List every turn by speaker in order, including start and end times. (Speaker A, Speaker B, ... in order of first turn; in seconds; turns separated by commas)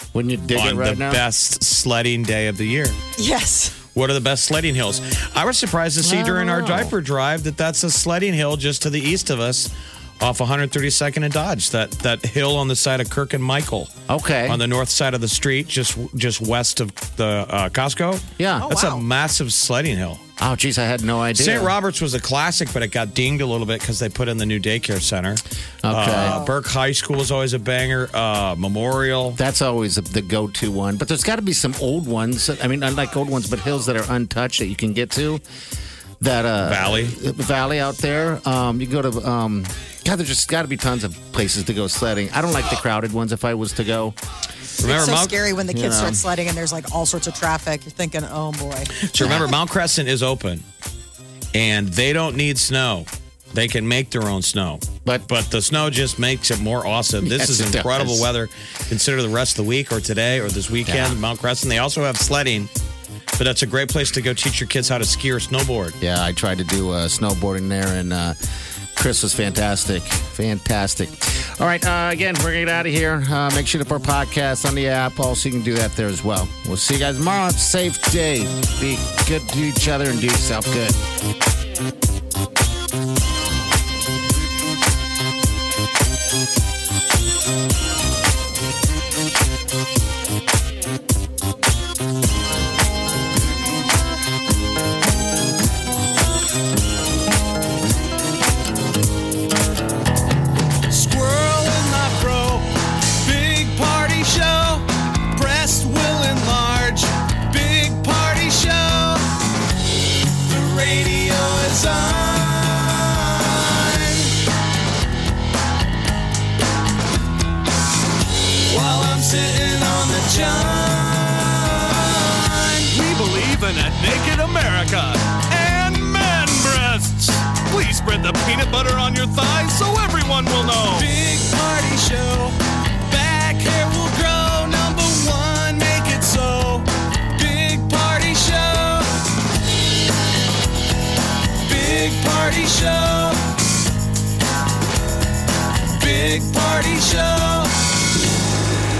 Speaker A: 0.1-1.2, Speaker B: 0.5-3.0, Speaker C: 3.2-3.8, Speaker B: 3.9-13.9, Speaker A: 6.0-6.9, Speaker A: 14.1-14.6, Speaker B: 14.5-20.2, Speaker A: 18.4-18.7, Speaker C: 18.6-19.0, Speaker A: 20.4-21.7, Speaker B: 21.4-29.4, Speaker A: 25.8-26.4, Speaker C: 26.1-26.6, Speaker A: 29.4-35.4, Speaker A: 36.2-44.2, Speaker B: 36.6-37.2, Speaker B: 44.8-45.4, Speaker C: 44.8-49.0, Speaker A: 45.7-46.2, Speaker B: 49.0-50.6, Speaker A: 49.2-49.6, Speaker B: 51.5-62.7, Speaker A: 57.2-58.3, Speaker A: 60.9-61.2, Speaker B: 63.4-66.0, Speaker A: 66.0-68.4, Speaker A: 69.0-81.0, Speaker D: 100.9-109.2, Speaker D: 110.5-114.3, Speaker D: 118.7-139.1, Speaker D: 141.6-143.4, Speaker D: 146.0-147.7